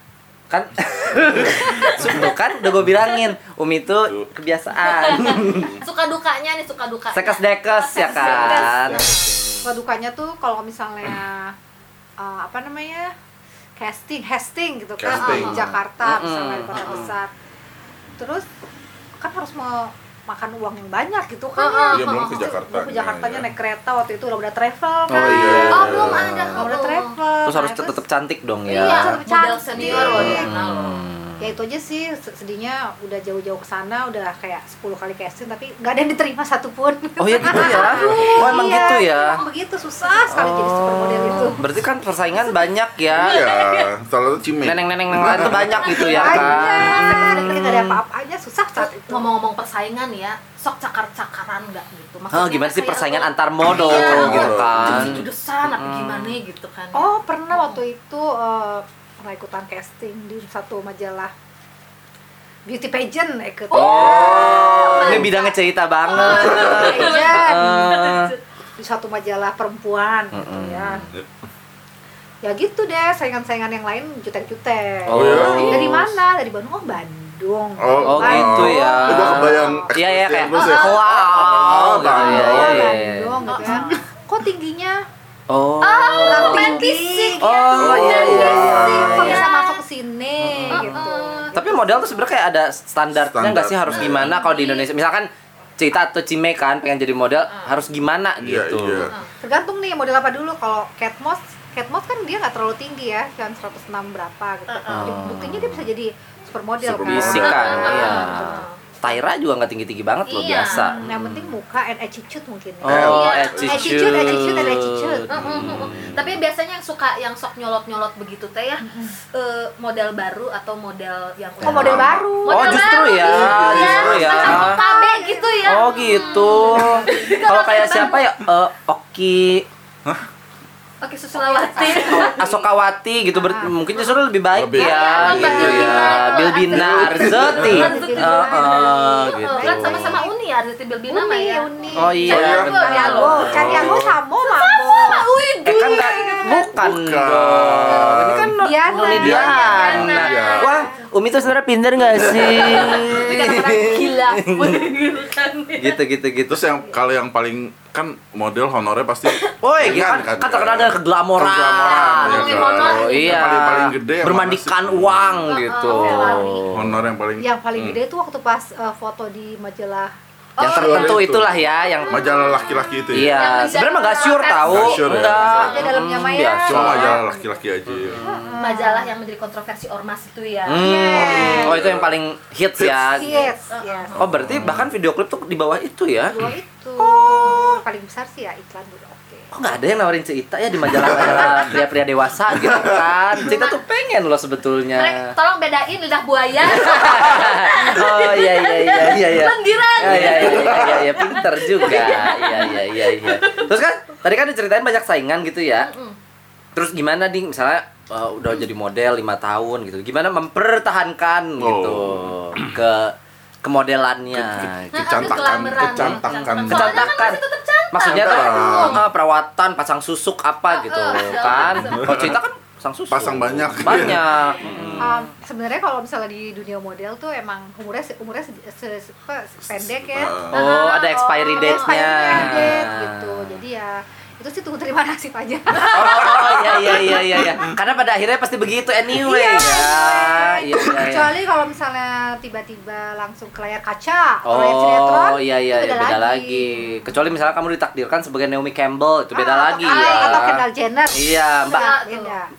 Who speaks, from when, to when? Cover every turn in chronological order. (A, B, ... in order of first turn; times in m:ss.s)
0:00.5-0:05.7 A
0:01.3-0:02.3 B
0:04.8-0:09.3 C
0:05.4-0:05.8 B
0:07.1-0:09.1 A
0:08.0-0:11.5 D
0:08.5-0:09.6 B
0:12.2-0:13.1 D
0:13.8-0:17.3 D
0:15.0-0:15.8 B
0:15.1-0:15.6 C
0:16.0-0:17.1 A
0:16.7-0:17.1 C
0:18.2-0:18.4 D
0:19.2-0:25.9 D
0:21.6-0:22.5 C
0:21.9-0:23.5 B
0:25.1-0:26.6 A
0:25.1-0:26.5 B
0:25.7-0:27.2 C
0:26.5-0:28.0 D
0:27.4-0:29.2 A
0:28.7-0:31.0 C
0:28.7-0:30.5 D
0:29.7-0:30.4 B
0:30.1-0:31.5 A
0:31.4-0:41.6 D
0:37.2-0:39.4 A
0:37.5-0:38.9 C
0:40.3-0:43.4 A
0:41.3-0:41.6 C
0:42.3-0:42.6 C
0:43.1-0:46.9 B
0:43.2-0:43.9 C
0:44.6-0:48.0 A
0:45.8-0:47.6 C
0:46.0-0:49.3 D
0:48.8-0:57.8 C
0:52.3-0:56.4 A
0:53.6-0:55.2 B
0:56.9-1:01.3 D
1:02.6-1:05.3 D
1:03.7-1:08.3 A
1:03.7-1:08.4 C
1:04.0-1:05.0 B
1:06.1-1:08.1 D
1:08.8-1:11.0 D
1:10.3-1:11.1 A
1:12.4-1:19.9 D
1:15.1-1:16.2 A
1:15.1-1:16.0 B
1:17.8-1:23.0 B
1:18.0-1:23.7 A
1:20.5-1:21.0 C
1:20.6-1:25.0 D
1:23.4-1:24.0 C
1:25.5-1:26.9 A
1:25.8-1:29.8 C
1:26.2-1:32.0 D
1:27.4-1:29.5 A
1:27.8-1:29.4 B
1:30.4-1:39.1 A
1:30.7-1:31.8 C
1:33.1-1:34.3 B
1:33.9-1:34.9 C
1:38.4-1:39.1 B
1:39.0-1:39.3 C
1:39.4-1:48.6 D
1:44.7-1:45.1 C
1:44.9-1:45.9 A
1:46.8-1:47.8 B
1:47.0-1:51.5 A
1:47.3-1:48.8 C
1:50.3-1:50.9 C
1:50.6-1:55.3 D
1:52.8-1:56.2 A
1:52.8-1:54.4 B
1:52.9-1:53.7 C
1:55.3-2:08.2 C
1:55.4-1:56.1 B
1:58.8-1:59.1 D
2:01.6-2:02.4 B
2:01.6-2:03.4 D
2:02.4-2:04.8 A
2:03.1-2:04.7 B
2:04.4-2:07.3 D
2:05.6-2:09.7 A
2:11.0-2:12.5 C
2:11.3-2:12.5 D
2:11.9-2:20.1 A
2:13.3-2:13.8 D
2:14.5-2:16.0 B
2:14.7-2:26.6 C
2:15.1-2:16.4 D
2:16.7-2:17.9 B
2:17.3-2:20.3 D
2:21.1-2:25.3 D
2:22.0-2:23.9 A
2:22.3-2:22.7 B
2:23.4-2:24.2 B
2:25.6-2:34.9 A
2:25.8-2:26.6 D
2:26.8-2:28.5 B
2:28.6-2:31.0 D
2:28.9-2:30.9 C
2:29.1-2:30.7 B
2:32.0-2:33.1 B
2:32.4-2:36.0 C
2:33.2-2:33.8 D
2:35.8-2:36.6 A
2:36.5-2:45.4 B
2:39.6-2:47.0 A
2:42.0-2:43.6 C
2:45.5-2:46.6 C
2:45.8-2:46.6 D
2:46.7-2:48.0 B
2:47.4-2:50.1 D
2:50.6-2:51.2 C
2:50.6-2:52.2 A
2:50.6-2:53.4 B
2:51.8-2:56.0 C
2:53.1-2:57.2 A
2:54.6-2:55.7 B
2:55.3-2:57.6 D
2:56.6-2:58.2 B
2:57.9-2:58.6 A
2:58.2-2:59.1 D
2:58.6-3:01.5 C
3:00.6-3:03.5 A
3:00.7-3:01.8 D
3:01.1-3:02.1 B
3:03.0-3:04.5 D
3:03.7-3:04.2 C
3:04.1-3:04.9 B
3:04.2-3:06.4 A
3:06.3-3:09.8 D
3:07.0-3:07.8 C
3:07.2-3:07.6 A
3:09.5-3:15.3 A
3:10.8-3:11.7 B
3:12.5-3:13.1 B
3:13.4-3:13.8 C
3:14.9-3:23.7 C
3:16.7-3:25.9 A
3:20.0-3:21.1 B
3:25.8-3:26.2 C
3:26.7-3:45.3 A
3:31.6-3:32.8 B
3:34.3-3:37.2 B
3:34.9-3:39.0 C
3:38.0-3:39.0 B
3:40.7-3:42.3 C
3:41.7-3:42.4 B
3:43.1-3:45.0 B
3:44.3-3:44.6 C
3:45.0-3:50.4 D
3:49.7-3:50.5 B
3:50.5-3:53.6 A
3:50.5-3:52.7 C
3:51.4-3:57.5 D
3:55.8-4:01.3 A
3:59.1-4:07.1 D
4:04.4-4:11.9 A
4:09.3-4:12.5 D
4:09.8-4:10.5 C
4:11.7-4:12.4 C